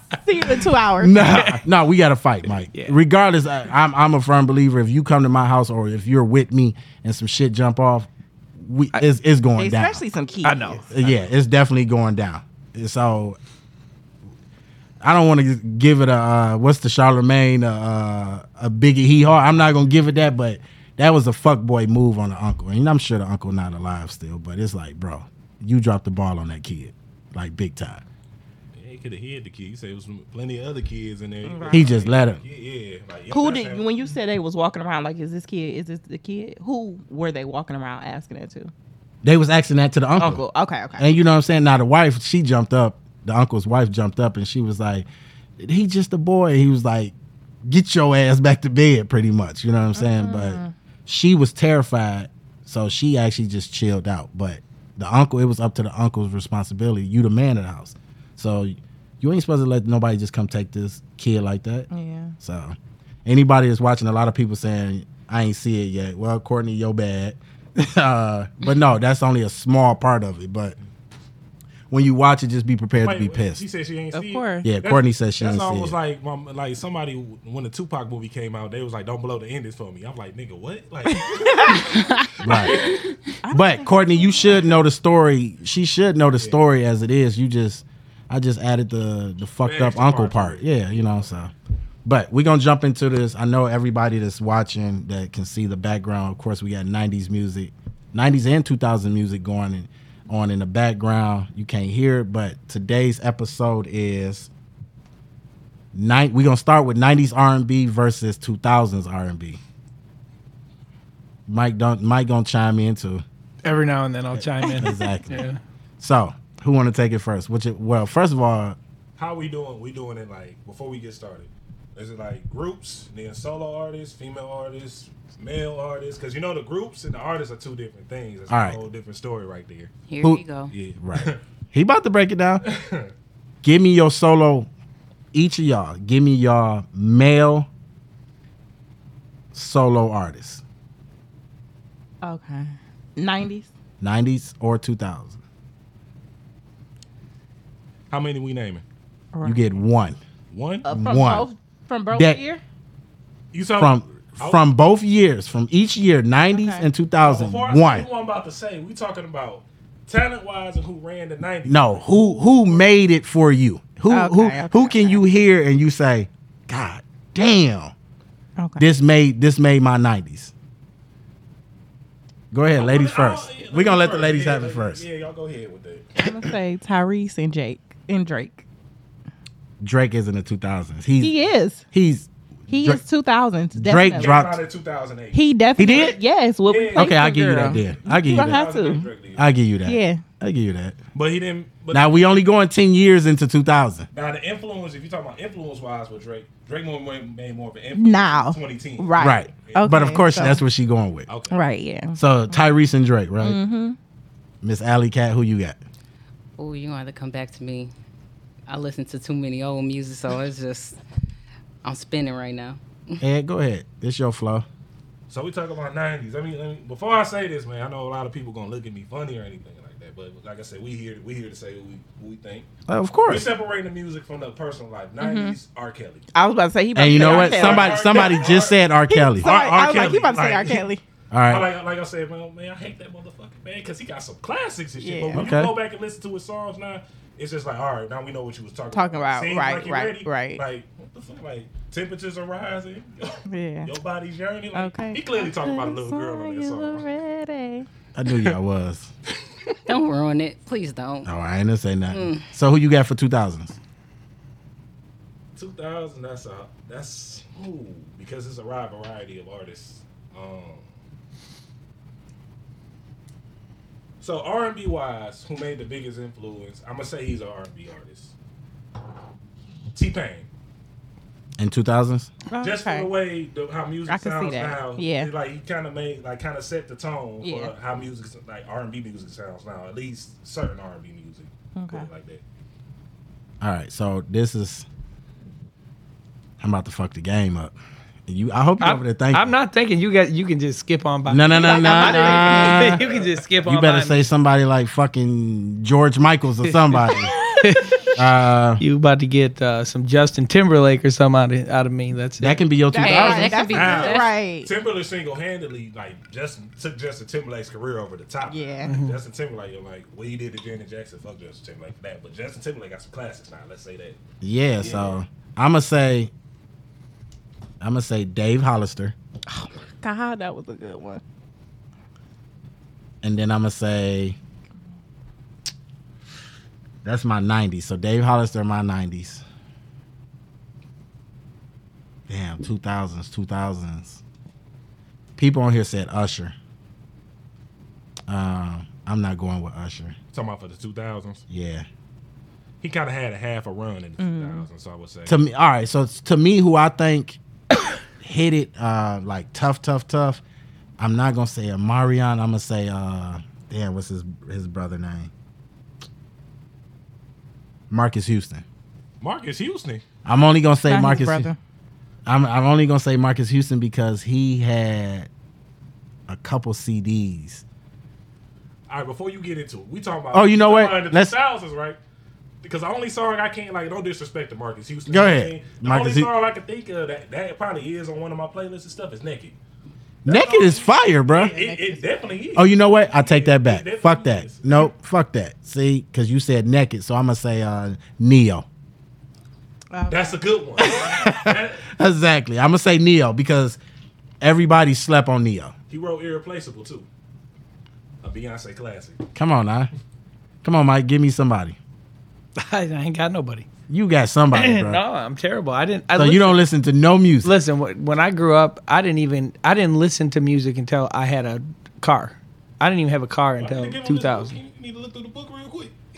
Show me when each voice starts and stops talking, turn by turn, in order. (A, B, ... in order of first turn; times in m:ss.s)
0:00.2-0:01.2 A
0:01.0-0:10.0 B
0:09.6-0:10.8 A
0:10.4-0:11.1 C
0:10.9-0:13.4 B
0:15.0-0:28.0 B
0:28.8-0:33.9 D
0:31.4-0:31.9 A
0:31.7-0:32.4 B
0:33.3-0:38.7 A
0:39.2-0:40.4 B
0:40.2-0:41.1 A
0:41.0-0:45.1 B
0:45.6-0:47.1 B
0:47.6-1:01.9 B
0:50.0-0:50.7 A
1:01.9-1:02.4 A
1:02.4-1:10.8 B
1:11.9-1:13.6 B
1:13.0-1:23.0 D
1:14.1-1:14.7 A
1:14.6-1:16.0 B
1:21.2-1:21.8 A
1:22.4-1:22.8 B
1:23.4-1:24.6 A
1:23.5-1:31.5 B
1:29.6-1:31.4 D
1:32.0-1:44.5 B
1:45.9-1:49.6 B
1:51.5-1:53.2 B
1:53.6-1:55.6 C
1:54.3-1:55.4 B
1:56.0-1:58.8 B
1:59.2-2:09.9 D
2:08.5-2:08.8 B
2:10.1-2:10.7 E
2:10.7-2:11.4 D
2:11.0-2:12.6 B
2:12.6-2:13.1 D
2:13.6-2:14.7 B
2:15.3-2:17.7 B
2:19.5-2:20.6 B
2:22.2-2:23.7 A
2:24.0-2:25.4 B
2:28.1-2:28.8 D
2:29.3-2:29.7 A
2:29.4-2:30.2 B
2:30.5-2:30.9 D
2:30.8-2:31.5 B
2:30.8-2:32.6 A
2:32.1-2:32.4 B
2:33.5-2:34.6 D
2:33.8-2:38.1 B
2:36.5-2:36.9 A
2:37.2-2:42.9 D
2:41.7-2:47.9 B
2:44.1-2:45.2 A
2:48.6-2:48.8 A
2:48.8-2:50.5 B
2:52.5-2:55.0 B
2:52.8-2:56.1 D
2:56.2-2:58.6 A
2:59.8-3:01.4 B
3:01.2-3:01.8 A
3:01.9-3:03.0 B
3:02.7-3:04.4 A
3:03.8-3:04.6 B
3:04.2-3:06.1 D
3:05.3-3:09.1 A
3:05.8-3:06.2 B
3:06.7-3:09.5 D
3:07.0-3:08.6 B
3:09.4-3:11.0 B
3:09.8-3:10.2 A
3:11.2-3:12.4 D
3:11.9-3:14.1 B
3:14.1-3:20.2 D
3:18.0-3:20.6 A
3:19.2-3:21.3 B
3:21.3-3:21.6 D
3:21.5-3:22.2 A
3:22.2-3:23.6 B
3:23.4-3:24.0 A
3:24.6-3:25.8 B
3:26.6-3:27.9 E
3:28.7-3:31.0 E
3:31.8-3:33.2 E
3:33.2-3:34.7 B
3:35.3-3:42.7 D
3:42.9-3:43.5 B
3:43.3-3:46.3 D
3:45.2-3:45.6 A
3:46.3-3:48.3 A
3:47.0-3:50.2 B
3:47.0-3:48.8 D
3:49.1-3:51.0 A
3:49.6-3:50.9 D
3:51.3-3:51.7 B
3:51.5-4:07.1 D
3:55.0-3:55.4 A
3:55.4-3:55.8 B
3:58.9-4:00.6 A
4:03.5-4:03.9 A
4:04.7-4:07.9 A
4:08.2-4:09.1 B
4:08.3-4:08.6 D
4:09.9-4:11.3 E
4:11.2-4:13.8 B
4:12.1-4:12.5 E
4:15.6-4:20.9 D
4:24.2-4:28.3 D
4:29.9-4:30.5 D
4:31.6-4:32.3 B
4:32.5-4:33.1 A
4:32.6-4:42.4 D
4:34.1-4:35.3 A
4:37.4-4:37.7 A
4:41.8-4:42.1 A
4:43.6-4:44.9 B
4:46.6-4:47.8 B
4:48.3-4:49.5 B
4:48.8-4:54.2 C
4:51.3-4:53.0 B
4:51.6-4:53.0 A
4:53.6-4:57.3 B
4:56.6-4:58.1 C
4:58.2-4:58.8 B
4:58.8-5:02.6 C
5:02.4-5:03.7 B
5:02.9-5:04.7 A
5:03.0-5:04.3 E
5:03.7-5:14.2 D
5:08.5-5:08.9 A
5:08.9-5:09.2 C
5:14.4-5:16.3 B
5:14.8-5:15.2 D
5:17.8-5:19.2 B
5:19.5-5:21.2 A
5:23.2-5:24.4 B
5:27.0-5:29.4 B
5:32.3-5:34.2 B
5:35.4-5:36.5 B
5:38.3-5:40.2 B
5:40.3-5:41.4 D
5:41.5-5:41.9 B
5:42.8-5:45.4 D
5:44.2-5:44.7 A
5:45.3-5:47.4 B
5:48.2-5:50.4 B
5:51.0-5:55.3 B
5:57.9-5:58.6 B
5:59.2-6:00.0 D
6:00.2-6:01.5 B
6:00.9-6:01.6 A
6:02.3-6:05.3 B
6:06.3-6:07.6 B
6:08.9-6:12.0 D
6:10.3-6:11.4 B
6:12.6-6:19.6 D
6:15.1-6:16.3 B
6:20.2-6:21.5 B
6:20.2-6:24.9 D
6:21.3-6:22.0 A
6:22.6-6:28.7 B
6:29.9-6:30.4 A
6:30.1-6:31.9 D
6:30.8-6:33.8 B
6:34.4-6:35.7 B
6:35.9-6:37.1 D
6:38.2-6:39.2 D
6:39.4-6:39.9 B
6:40.6-6:41.8 B
6:42.6-6:43.7 C
6:43.9-6:45.0 B
6:44.5-6:46.6 C
6:46.1-6:47.5 B
6:47.4-6:54.6 C
6:53.6-6:55.9 D